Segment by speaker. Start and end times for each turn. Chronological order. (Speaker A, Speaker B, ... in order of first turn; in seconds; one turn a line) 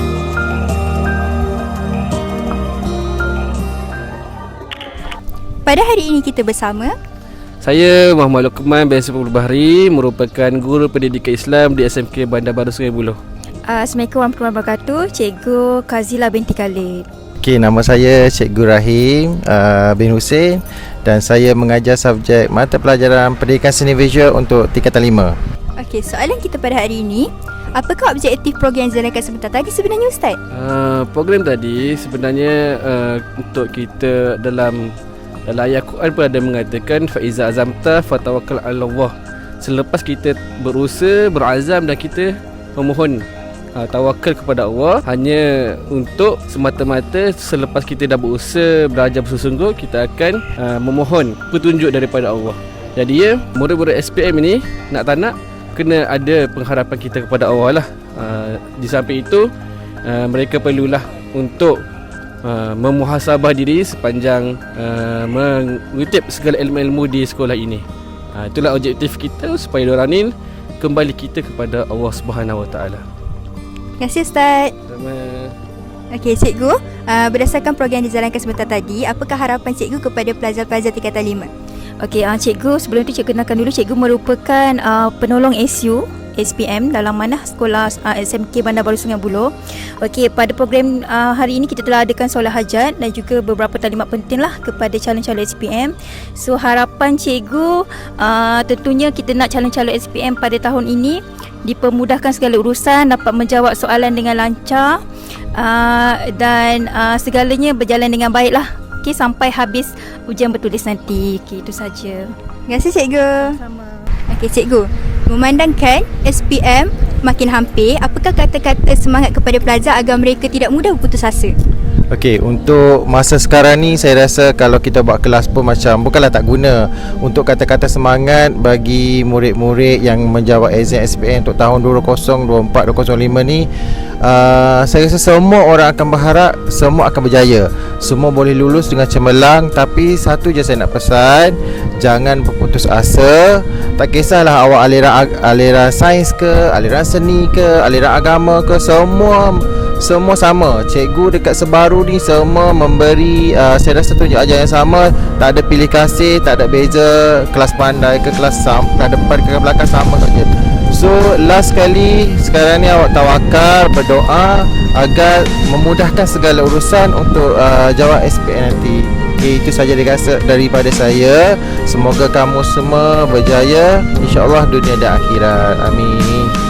Speaker A: 5.6-6.9
Speaker B: 7.6-13.2
Speaker C: 13.7-17.1
Speaker D: 17.4-25.3
Speaker A: 25.8-30.4
Speaker B: 30.5-35.0
Speaker B: 35.5-59.5
Speaker B: 60.0-61.8
Speaker B: 62.4-73.0
Speaker A: 74.0-74.7
Speaker B: 74.9-75.5
Speaker A: 76.1-81.5
Speaker C: 82.0-105.0
Speaker C: 105.5-112.3
Speaker A: 112.7-113.5
Speaker A: 114.3-121.5
Speaker D: 122.1-133.7
Speaker D: 134.2-176.5